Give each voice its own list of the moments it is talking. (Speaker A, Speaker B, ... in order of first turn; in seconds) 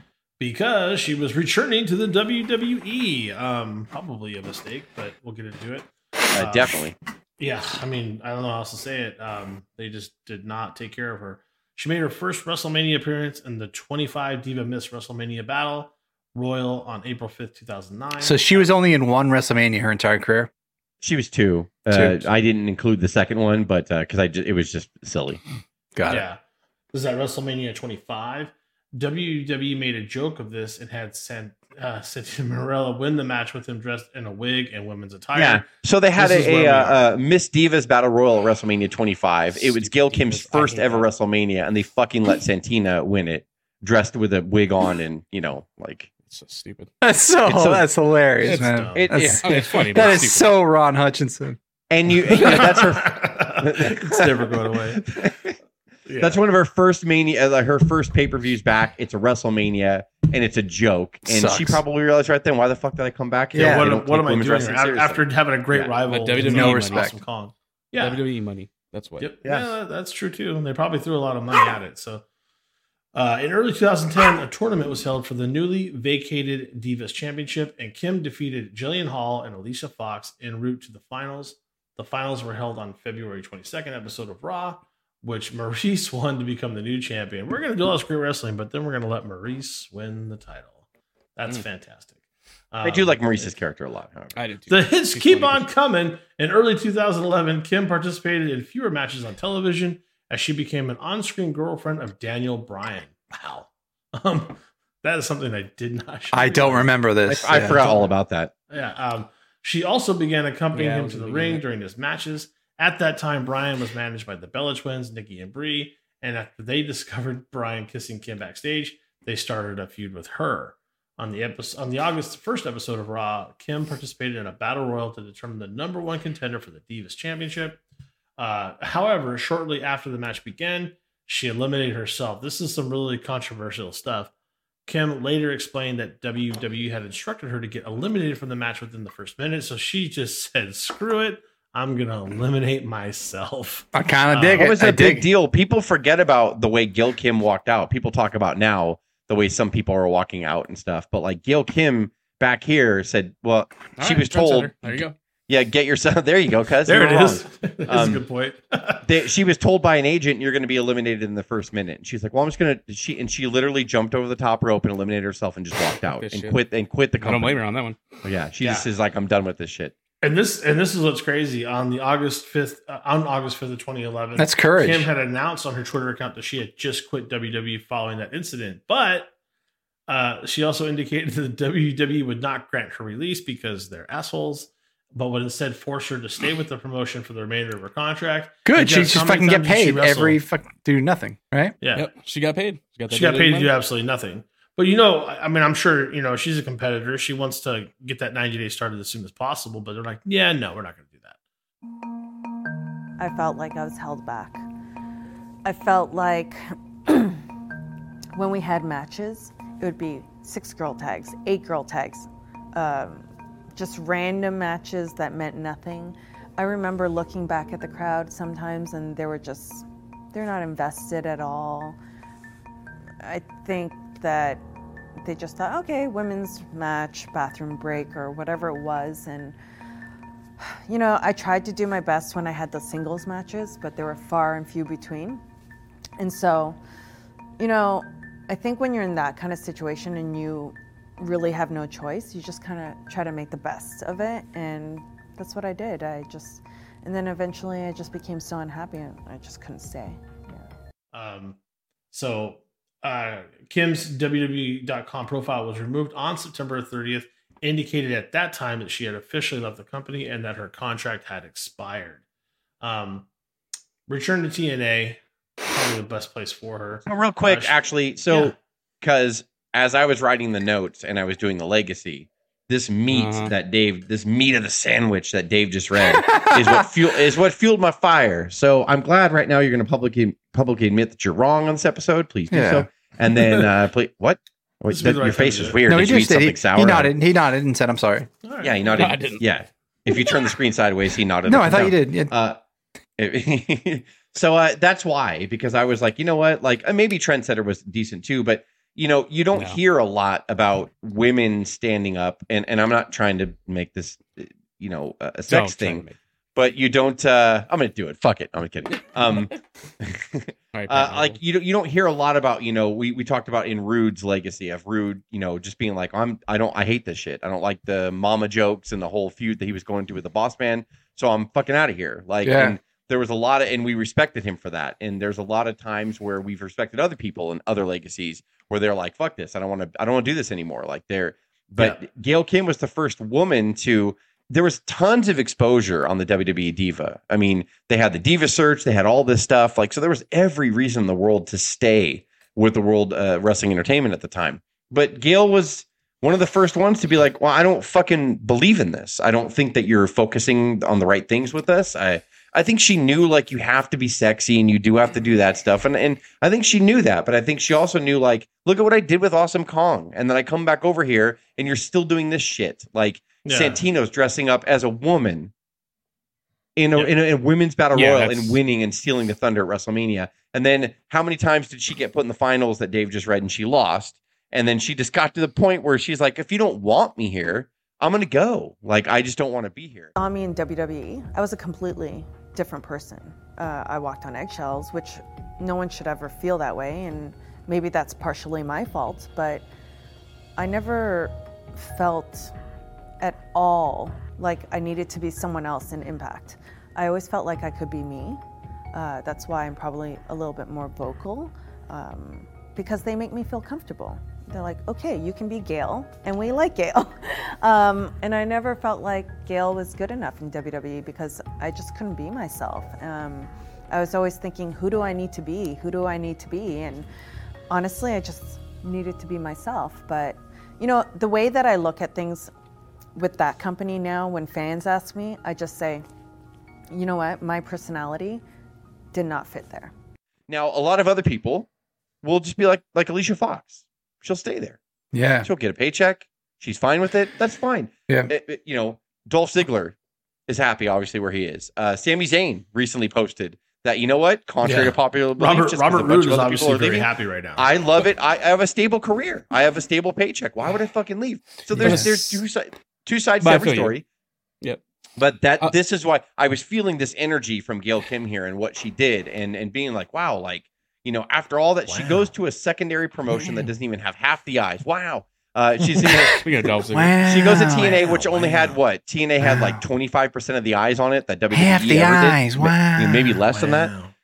Speaker A: 0.4-6.9, 7.4-18.7, 26.1-26.4, 26.9-37.0, 39.6-41.1, 48.6-49.1, 52.4-55.0, 56.1-56.4, 63.5-68.2, 69.2-72.2, 73.2-90.8, 91.4-92.1, 92.7-93.5, 94.7-106.9, 107.5-108.1, 108.7-127.8, 128.4-134.3, 134.9-144.7, 156.9-159.1, 168.6-168.9, 170.2-179.3, 180.1-190.4, 191.8-192.1, 193.1-201.4, 251.1-251.6, 252.1-262.2, 262.8-263.3, 264.1-267.8, 283.4-283.7, 284.9-285.8, 288.4-289.2, 363.4-363.8, 367.9-368.6, 444.6-447.7, 461.9-462.3, 468.0-468.8, 469.4-469.8, 473.5-474.1
Speaker B: 6.3-7.0, 21.0-25.4, 35.3-46.1, 47.5-47.9, 49.0-49.5, 51.9-55.6, 56.2-66.0, 69.4-69.7, 92.8-94.3, 107.3-108.5, 144.6-158.3, 159.0-167.6, 168.2-169.9, 267.1-287.1, 288.6-292.6, 293.2-365.5, 366.8-380.1, 430.5-431.7, 432.2-434.8, 435.4-439.9, 440.5-454.0, 455.2-466.4, 467.2-473.9
Speaker C: 18.2-20.5, 21.9-22.2, 26.0-26.2, 47.0-51.6, 52.3-52.6, 61.2-61.8, 63.5-63.9, 66.4-67.2, 106.3-108.0, 143.9-145.3, 174.4-175.1, 188.7-191.8, 276.0-276.9, 282.5-282.9, 285.9-288.3, 291.5-292.3, 322.4-322.8, 435.1-435.5, 451.8-452.1, 466.0-468.0, 471.5-473.4
Speaker D: 46.3-46.9, 48.5-50.5, 66.1-67.1, 68.0-69.3, 94.3-95.7, 110.7-111.6, 154.0-155.2, 166.2-166.6, 167.2-168.0, 191.9-193.7, 273.1-273.5, 289.0-289.4, 299.5-299.8, 305.5-306.1, 308.9-309.6, 310.7-311.4, 451.8-452.4, 453.4-454.0, 466.4-467.2
Speaker E: 203.2-204.6, 205.7-207.4, 208.4-222.0, 223.2-224.6, 225.2-229.6, 230.6-235.4, 236.2-236.8, 237.6-250.7, 380.2-389.6, 390.6-392.5, 393.2-398.4, 398.9-417.1, 417.7-422.5, 423.2-426.0, 426.9-428.4, 429.1-429.9